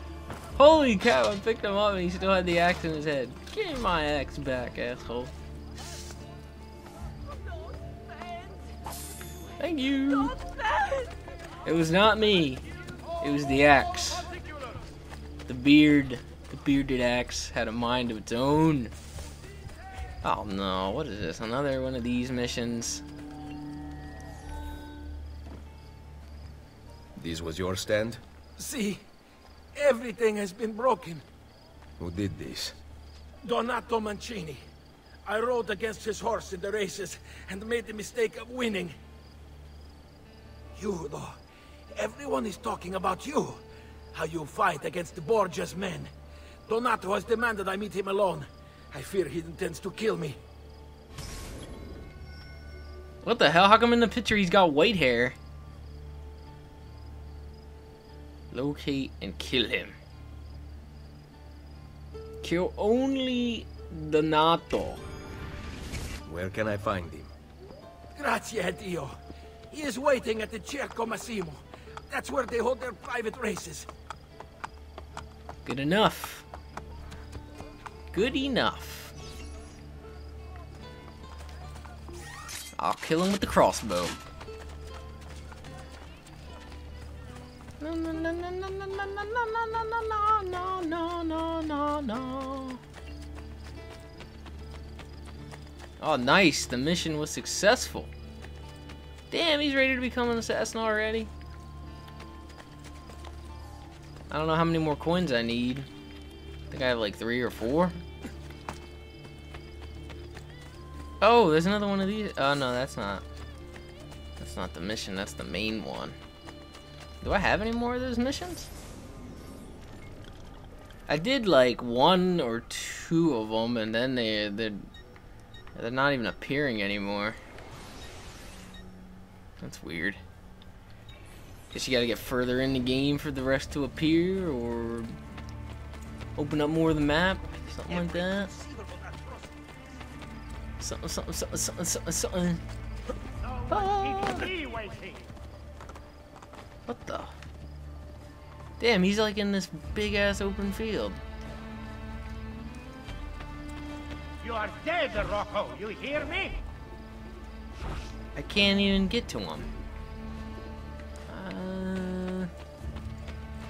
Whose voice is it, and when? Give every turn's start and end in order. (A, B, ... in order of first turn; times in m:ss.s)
0:00.6-0:05.3 A
0:09.6-0:10.4 A
0:11.6-0:12.6 A
0:13.2-0:14.3 A
0:15.5-0:18.9 A
0:20.2-0:23.0 A
0:27.2-0:28.2 B
0:28.6-0:29.0 C
0:29.8-0:31.2 C
0:32.0-0:32.8 B
0:33.4-0:34.6 C
0:35.3-0:39.0 C
0:40.7-0:41.4 C
0:41.9-0:43.6 C
0:44.1-0:46.1 C
0:46.7-0:50.4 C
0:53.2-0:55.4 A
0:58.5-1:00.0 A
1:02.4-1:05.0 A
1:06.3-1:07.3 B
1:08.2-1:09.2 C
1:09.7-1:13.9 C
1:15.6-1:16.5 A
1:18.1-1:19.1 A
1:22.8-1:24.2 A
1:27.8-1:32.8 A
1:36.0-1:38.1 A
1:39.3-1:41.3 A
1:44.3-1:45.9 A
1:46.7-1:48.0 A
1:51.2-1:53.2 A
1:54.4-1:56.2 A
1:57.2-1:58.7 A
2:01.1-2:04.9 A
2:05.8-2:07.4 A
2:09.6-2:10.2 A
2:11.7-2:15.2 A
2:16.4-2:18.5 A
2:17.9-2:19.5 C
2:20.8-2:22.6 A
2:23.4-2:25.3 D
2:23.7-2:24.5 A
2:26.9-2:27.4 A
2:28.8-2:31.2 A
2:34.4-2:36.6 D
2:38.4-2:39.7 A
2:41.3-2:42.5 A